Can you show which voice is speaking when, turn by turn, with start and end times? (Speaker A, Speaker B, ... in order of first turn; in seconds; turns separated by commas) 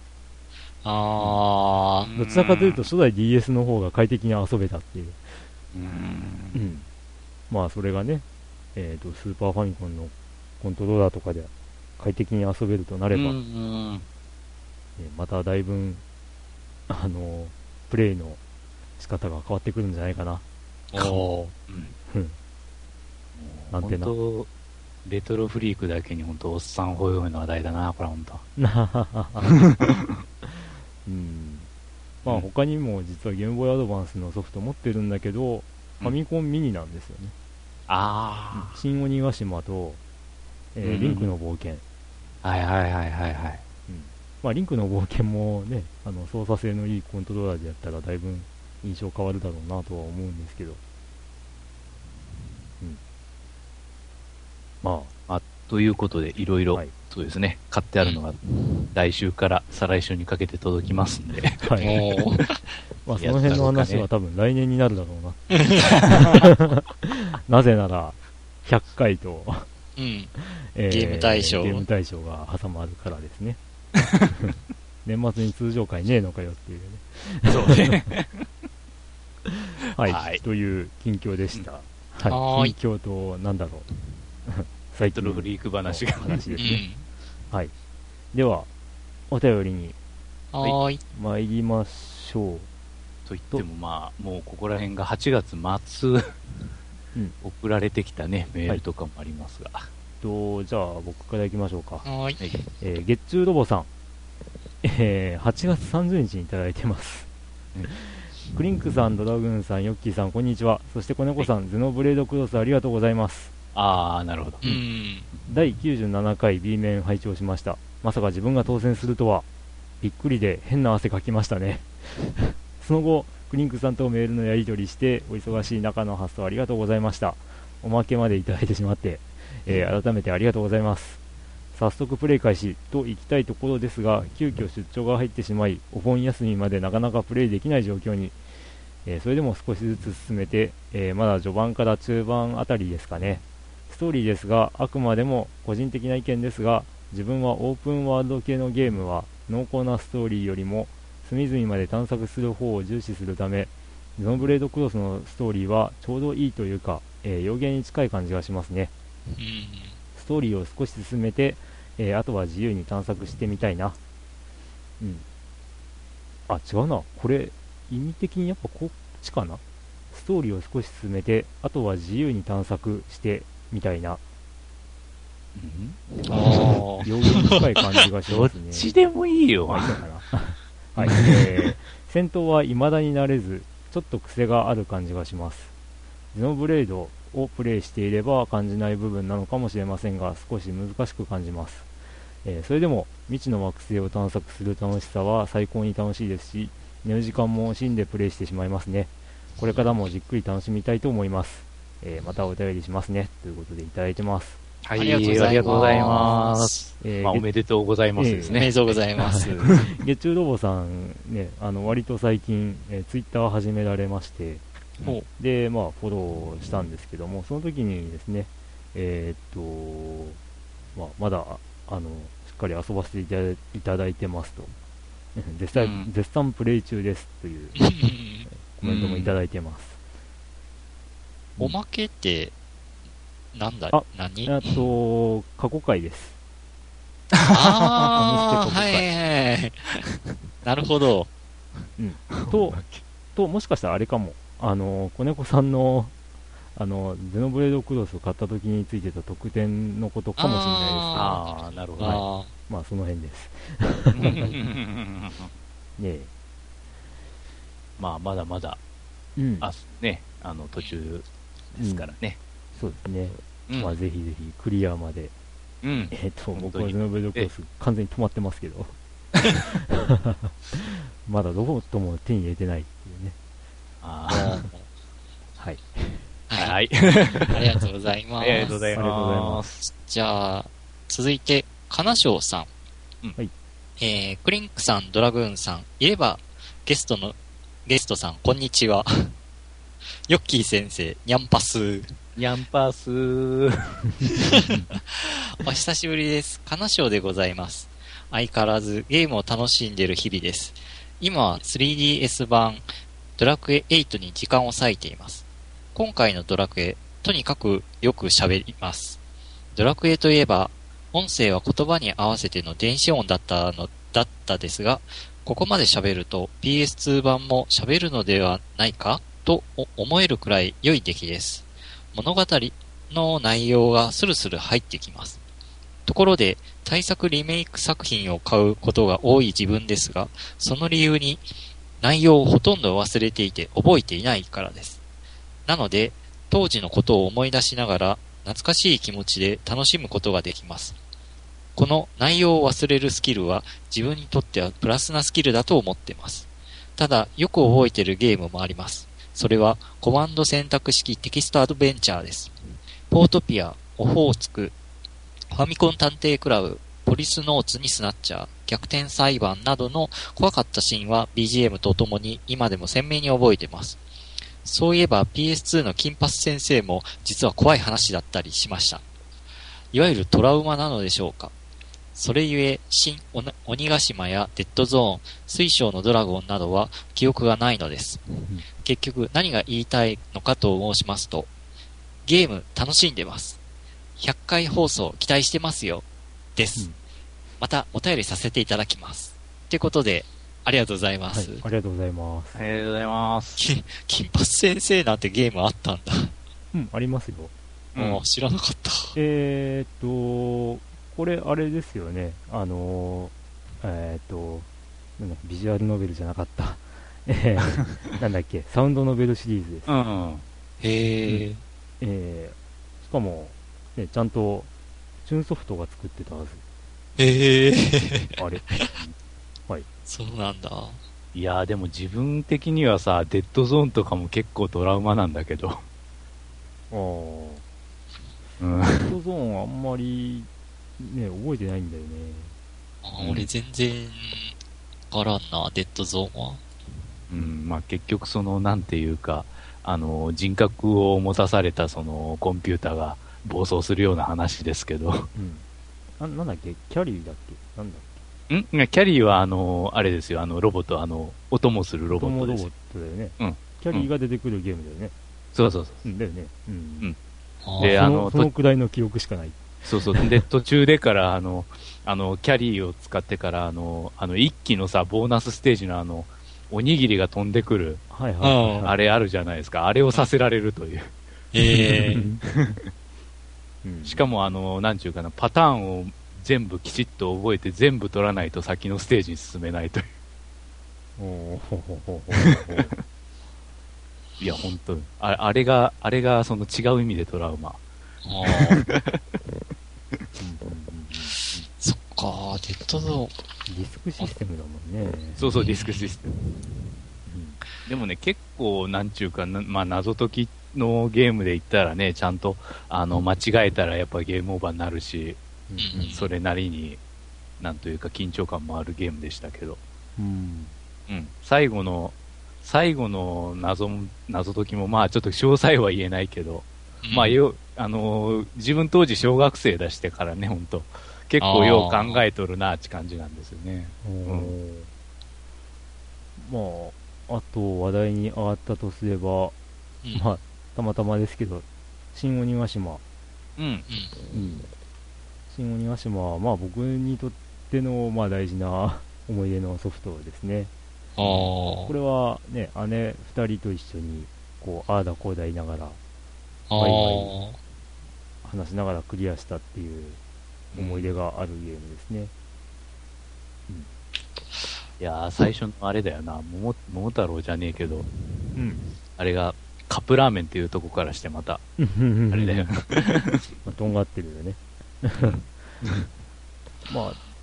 Speaker A: 0.8-2.1, Speaker B: 2.0-2.8, Speaker C: 2.1-5.2, Speaker B: 5.7-6.6, Speaker C: 6.5-6.8, Speaker C: 7.5-13.4, Speaker B: 13.1-14.0, Speaker C: 15.0-16.0, Speaker C: 16.9-18.4, Speaker C: 19.0-20.4, Speaker A: 20.9-21.5, Speaker B: 20.9-21.9, Speaker C: 22.1-22.4, Speaker B: 23.4-24.5, Speaker C: 23.7-24.1, Speaker B: 25.0-28.4, Speaker C: 28.6-29.7, Speaker B: 29.5-30.1, Speaker C: 31.0-31.7, Speaker C: 32.2-37.3, Speaker B: 37.9-38.8, Speaker C: 38.5-40.0, Speaker C: 40.7-41.8, Speaker B: 40.8-41.3, Speaker B: 42.4-43.6, Speaker C: 43.9-50.8, Speaker C: 54.8-55.1, Speaker B: 55.3-58.4, Speaker B: 58.9-62.0, Speaker C: 61.6-62.0, Speaker A: 61.8-62.5, Speaker C: 63.0-69.7, Speaker B: 63.1-64.1, Speaker A: 65.5-65.8, Speaker B: 65.8-66.4, Speaker A: 70.0-70.3, Speaker C: 70.4-73.6, Speaker A: 70.9-71.8, Speaker C: 74.3-78.0, Speaker B: 77.5-78.5, Speaker C: 79.5-83.9, Speaker B: 80.0-80.4, Speaker A: 82.3-82.7, Speaker C: 84.5-86.8, Speaker B: 85.1-86.8, Speaker A: 86.6-87.0, Speaker C: 88.3-88.7, Speaker C: 89.3-90.0, Speaker A: 90.5-91.0, Speaker C: 91.1-92.7, Speaker B: 93.2-96.4, Speaker B: 97.4-99.9, Speaker C: 100.2-102.0, Speaker A: 102.0-102.4, Speaker C: 102.8-103.9, Speaker C: 104.8-107.3, Speaker C: 107.9-113.5, Speaker B: 113.7-114.6, Speaker A: 114.6-115.3, Speaker C: 115.5-119.5, Speaker C: 120.0-131.2, Speaker C: 131.7-138.3, Speaker C: 139.0-158.9, Speaker A: 159.3-159.9, Speaker C: 160.2-164.0, Speaker C: 166.5-174.2, Speaker B: 175.5-177.1, Speaker A: 176.3-177.5, Speaker C: 177.0-178.9, Speaker B: 178.3-180.0, Speaker C: 179.7-185.7, Speaker B: 181.0-181.6, Speaker C: 186.3-191.9, Speaker C: 192.4-204.6, Speaker B: 204.8-208.9, Speaker A: 204.9-206.8, Speaker C: 205.1-206.3, Speaker C: 207.0-207.5, Speaker C: 208.1-214.6, Speaker A: 208.5-209.7, Speaker B: 209.6-209.9, Speaker A: 215.0-215.3, Speaker C: 215.3-220.4, Speaker C: 220.9-224.7, Speaker C: 225.3-227.9, Speaker B: 225.7-226.1, Speaker A: 227.8-228.5, Speaker C: 228.5-230.0, Speaker B: 228.8-229.3, Speaker A: 231.6-232.5, Speaker A: 233.5-234.7, Speaker C: 233.9-236.4, Speaker B: 237.3-237.8, Speaker A: 237.5-239.8, Speaker C: 238.1-239.1, Speaker A: 240.6-241.3, Speaker C: 242.0-242.8, Speaker B: 242.3-243.0, Speaker C: 243.3-246.1, Speaker C: 246.7-254.6, Speaker A: 250.4-252.5, Speaker B: 251.1-252.2, Speaker B: 254.1-255.5, Speaker A: 254.3-254.6, Speaker C: 256.0-256.3, Speaker B: 258.0-258.8, Speaker C: 259.4-259.7, Speaker B: 259.6-262.4, Speaker C: 261.8-262.1, Speaker C: 262.7-265.3, Speaker B: 263.7-263.9, Speaker B: 265.8-267.5, Speaker C: 266.1-268.9, Speaker C: 269.9-273.4, Speaker B: 274.0-274.6, Speaker A: 274.3-274.9, Speaker C: 275.6-276.2, Speaker A: 276.5-276.8, Speaker B: 276.6-277.6, Speaker A: 277.5-278.8, Speaker B: 278.4-279.8, Speaker C: 278.9-279.6, Speaker A: 279.8-282.7, Speaker A: 284.0-289.3, Speaker A: 290.3-292.1, Speaker B: 292.4-294.0, Speaker A: 294.2-309.2, Speaker B: 294.5-294.9, Speaker A: 309.7-325.4, Speaker A: 326.1-331.4, Speaker A: 332.0-335.0, Speaker A: 335.6-341.0, Speaker A: 341.7-352.5, Speaker A: 353.1-354.7, Speaker A: 355.5-364.0, Speaker A: 364.6-369.0, Speaker A: 369.9-371.5, Speaker A: 372.1-378.2, Speaker A: 378.8-381.5, Speaker A: 382.2-383.6, Speaker A: 384.2-386.9, Speaker A: 387.6-391.6, Speaker C: 391.3-392.6, Speaker B: 392.5-393.6, Speaker A: 393.6-396.3, Speaker C: 396.7-397.5, Speaker B: 397.9-398.2, Speaker A: 397.9-399.2, Speaker C: 399.1-410.0, Speaker B: 409.9-410.4, Speaker A: 410.8-411.6, Speaker C: 412.0-414.7, Speaker C: 415.2-416.6, Speaker A: 417.2-418.9, Speaker C: 418.4-418.8, Speaker A: 420.1-421.0, Speaker B: 421.3-425.8, Speaker C: 426.9-427.6, Speaker B: 428.6-429.1, Speaker C: 428.9-432.5, Speaker A: 433.0-434.5, Speaker B: 433.2-433.5, Speaker A: 435.1-436.6, Speaker B: 437.3-445.3, Speaker C: 445.3-445.6, Speaker C: 446.2-448.2, Speaker B: 448.5-452.7, Speaker C: 452.1-455.1, Speaker B: 453.4-454.1, Speaker B: 455.5-456.0, Speaker C: 456.0-457.1, Speaker A: 457.6-458.0, Speaker B: 457.8-458.5, Speaker C: 457.8-460.4, Speaker B: 459.8-468.0, Speaker C: 468.1-468.9, Speaker A: 468.4-468.9, Speaker B: 468.8-471.1, Speaker A: 471.5-472.3, Speaker C: 471.7-472.4, Speaker B: 472.4-472.8, Speaker C: 473.8-474.2, Speaker B: 474.1-480.1, Speaker C: 481.2-482.9, Speaker B: 482.4-482.9, Speaker B: 484.4-487.8, Speaker A: 488.2-488.8, Speaker B: 488.4-489.2, Speaker C: 490.4-491.4, Speaker A: 491.8-493.3, Speaker C: 493.7-495.4, Speaker B: 495.4-496.4, Speaker A: 495.7-496.2, Speaker C: 497.2-497.6, Speaker B: 497.8-505.4, Speaker C: 505.7-506.2, Speaker A: 505.8-506.3, Speaker B: 506.1-507.0, Speaker B: 507.6-509.8, Speaker C: 510.1-510.7, Speaker B: 511.1-524.5, Speaker A: 517.0-517.4, Speaker A: 521.4-522.2, Speaker C: 524.0-524.9, Speaker C: 526.4-529.5, Speaker C: 530.1-533.0, Speaker B: 533.6-533.9, Speaker A: 533.9-534.2, Speaker C: 534.3-534.6, Speaker C: 535.5-540.7, Speaker A: 541.2-541.9, Speaker C: 541.2-546.0, Speaker A: 546.7-547.6, Speaker C: 546.8-547.4, Speaker C: 548.4-550.2, Speaker B: 550.7-551.1, Speaker C: 550.8-552.3, Speaker B: 555.0-558.1, Speaker C: 558.5-558.8, Speaker B: 559.2-561.6, Speaker C: 561.8-562.7, Speaker B: 562.3-563.5, Speaker C: 563.6-565.5, Speaker B: 565.2-566.0, Speaker C: 566.9-567.2